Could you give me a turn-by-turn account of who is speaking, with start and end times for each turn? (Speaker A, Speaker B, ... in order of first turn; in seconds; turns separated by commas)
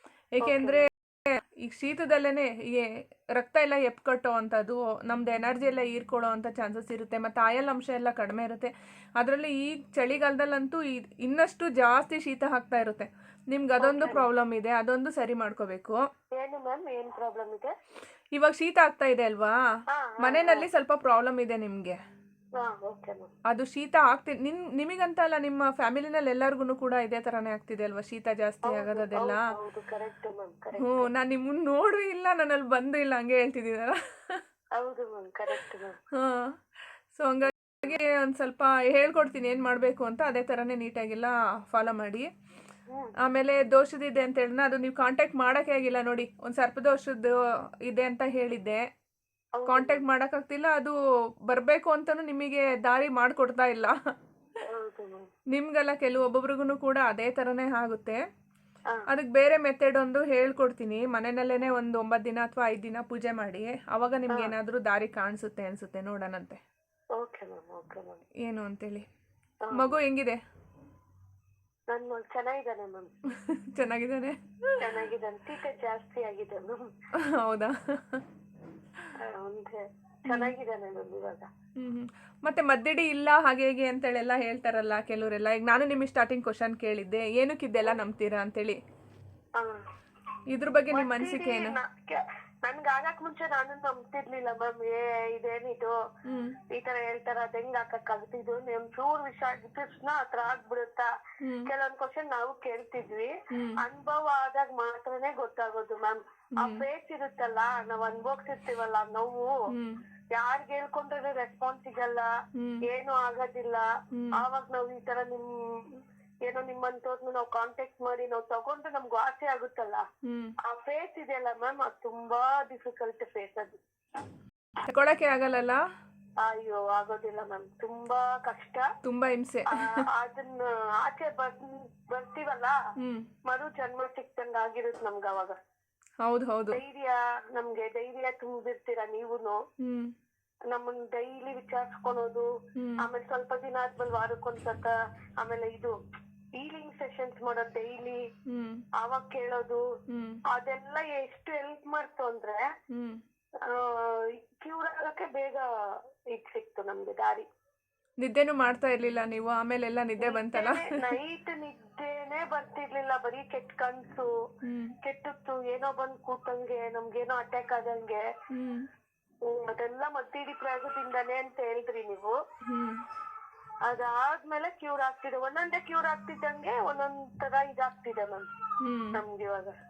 Speaker A: 0.4-16.0, Speaker B: 0.4-0.8, Speaker B: 13.8-14.3, Speaker B: 16.4-17.7, Speaker A: 18.4-19.6, Speaker B: 19.9-20.6, Speaker A: 20.2-22.0, Speaker B: 22.6-23.3, Speaker A: 23.5-29.4, Speaker B: 28.6-31.1, Speaker A: 30.8-34.4, Speaker B: 34.8-36.0, Speaker A: 36.1-36.5, Speaker A: 37.1-42.3, Speaker B: 42.9-43.1, Speaker A: 43.2-47.3, Speaker A: 47.9-48.8, Speaker B: 49.5-50.0, Speaker A: 49.7-51.0, Speaker A: 51.5-53.9, Speaker B: 54.6-55.2, Speaker A: 55.5-58.2, Speaker A: 59.1-66.6, Speaker B: 67.2-68.2, Speaker A: 68.4-69.0, Speaker B: 69.6-70.0, Speaker A: 69.7-70.4, Speaker B: 71.9-73.1, Speaker A: 73.4-74.8, Speaker B: 74.8-76.8, Speaker A: 77.2-78.2, Speaker B: 79.2-81.5, Speaker A: 80.3-80.5, Speaker A: 81.8-88.8, Speaker A: 90.5-91.7, Speaker B: 90.9-95.9, Speaker A: 96.2-96.5, Speaker B: 96.7-101.1, Speaker A: 101.4-101.7, Speaker B: 101.7-109.5, Speaker A: 103.5-103.8, Speaker A: 106.6-106.8, Speaker A: 109.7-110.0, Speaker B: 110.3-112.3, Speaker A: 112.5-112.8, Speaker B: 112.8-113.8, Speaker A: 114.1-114.4, Speaker B: 114.3-120.0, Speaker A: 120.2-120.5, Speaker B: 120.7-123.8, Speaker A: 124.8-125.8, Speaker B: 126.4-128.8, Speaker A: 129.0-130.1, Speaker B: 129.7-132.7, Speaker A: 133.0-133.3, Speaker B: 133.5-135.6, Speaker A: 136.2-136.8, Speaker B: 136.7-139.6, Speaker A: 139.8-140.1, Speaker B: 140.7-142.5, Speaker A: 142.8-143.0, Speaker B: 143.0-145.9, Speaker B: 146.6-148.2, Speaker A: 148.5-148.8, Speaker B: 149.0-149.8, Speaker A: 150.1-150.4, Speaker B: 150.5-152.7, Speaker A: 152.9-153.2, Speaker B: 153.6-155.7, Speaker B: 156.3-157.4, Speaker A: 158.2-160.9, Speaker B: 160.2-164.3, Speaker A: 164.6-164.9, Speaker B: 165.0-168.2, Speaker A: 168.5-168.9, Speaker B: 169.4-172.4, Speaker A: 172.7-173.0, Speaker B: 173.8-178.5, Speaker A: 178.8-179.2, Speaker B: 179.1-179.8